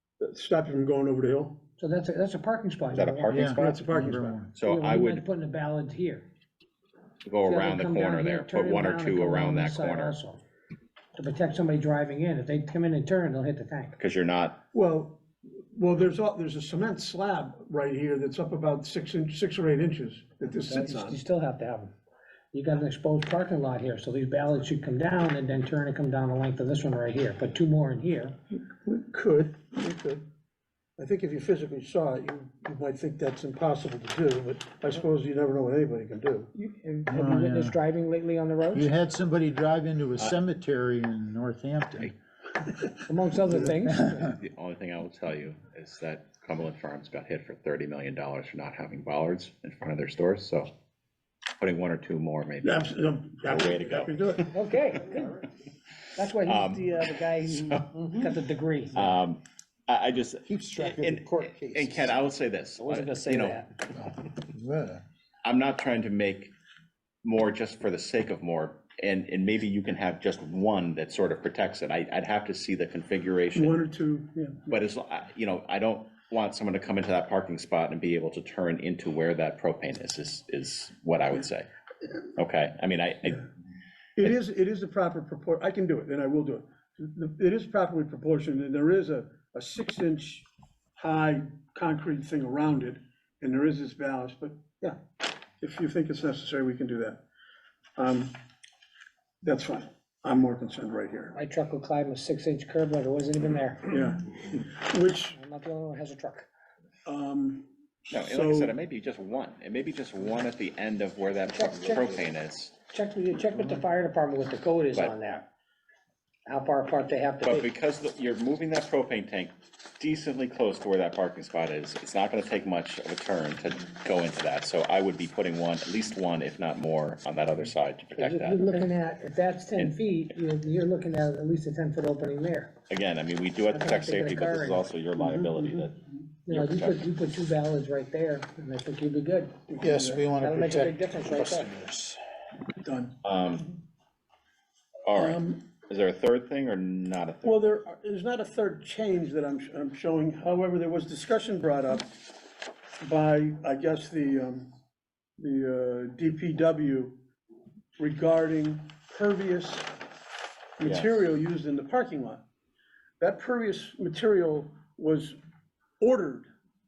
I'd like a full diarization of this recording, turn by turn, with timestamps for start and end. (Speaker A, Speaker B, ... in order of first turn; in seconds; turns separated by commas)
Speaker A: 0.2-1.6, Speaker B: 1.8-3.5, Speaker C: 2.9-3.9, Speaker D: 3.3-4.5, Speaker A: 3.5-4.4, Speaker C: 4.5-5.2, Speaker B: 4.6-6.3, Speaker C: 7.2-10.2, Speaker B: 7.4-10.4, Speaker B: 11.2-13.9, Speaker C: 14.0-14.6, Speaker A: 14.7-21.2, Speaker B: 20.6-21.9, Speaker B: 22.5-28.3, Speaker A: 28.8-30.2, Speaker A: 31.0-36.5, Speaker B: 36.5-38.9, Speaker D: 37.1-37.8, Speaker D: 38.7-42.1, Speaker B: 43.0-44.3, Speaker C: 44.2-50.7, Speaker C: 51.6-52.9, Speaker A: 52.6-54.5, Speaker C: 53.4-54.4, Speaker B: 54.5-55.4, Speaker B: 56.1-59.0, Speaker C: 56.4-58.1, Speaker C: 58.9-63.6, Speaker D: 60.5-62.1, Speaker B: 62.8-63.7, Speaker D: 64.0-65.0, Speaker C: 65.4-66.5, Speaker C: 67.2-73.8, Speaker A: 73.5-74.7, Speaker C: 74.7-81.7, Speaker C: 82.4-83.4, Speaker A: 84.2-90.5, Speaker A: 91.0-95.0, Speaker A: 95.6-97.2, Speaker A: 98.0-98.3, Speaker A: 99.4-101.3, Speaker B: 101.3-103.9, Speaker A: 103.9-105.4, Speaker B: 105.3-106.5, Speaker A: 107.0-108.7, Speaker C: 108.1-112.7, Speaker B: 111.5-112.2, Speaker B: 112.9-115.5, Speaker B: 116.5-117.7, Speaker C: 117.4-128.9, Speaker B: 128.2-132.7, Speaker C: 132.9-137.0, Speaker B: 133.7-134.9, Speaker A: 135.2-135.9, Speaker B: 136.5-139.6, Speaker A: 139.7-140.2, Speaker D: 139.8-142.2, Speaker B: 140.4-141.7, Speaker A: 142.8-143.2, Speaker C: 143.2-143.6, Speaker C: 145.1-147.6, Speaker A: 145.1-145.6, Speaker A: 147.4-152.1, Speaker A: 153.0-154.7, Speaker A: 155.4-157.2, Speaker A: 158.0-159.9, Speaker A: 160.8-162.4, Speaker C: 160.8-161.1, Speaker A: 163.2-165.4, Speaker A: 166.0-166.5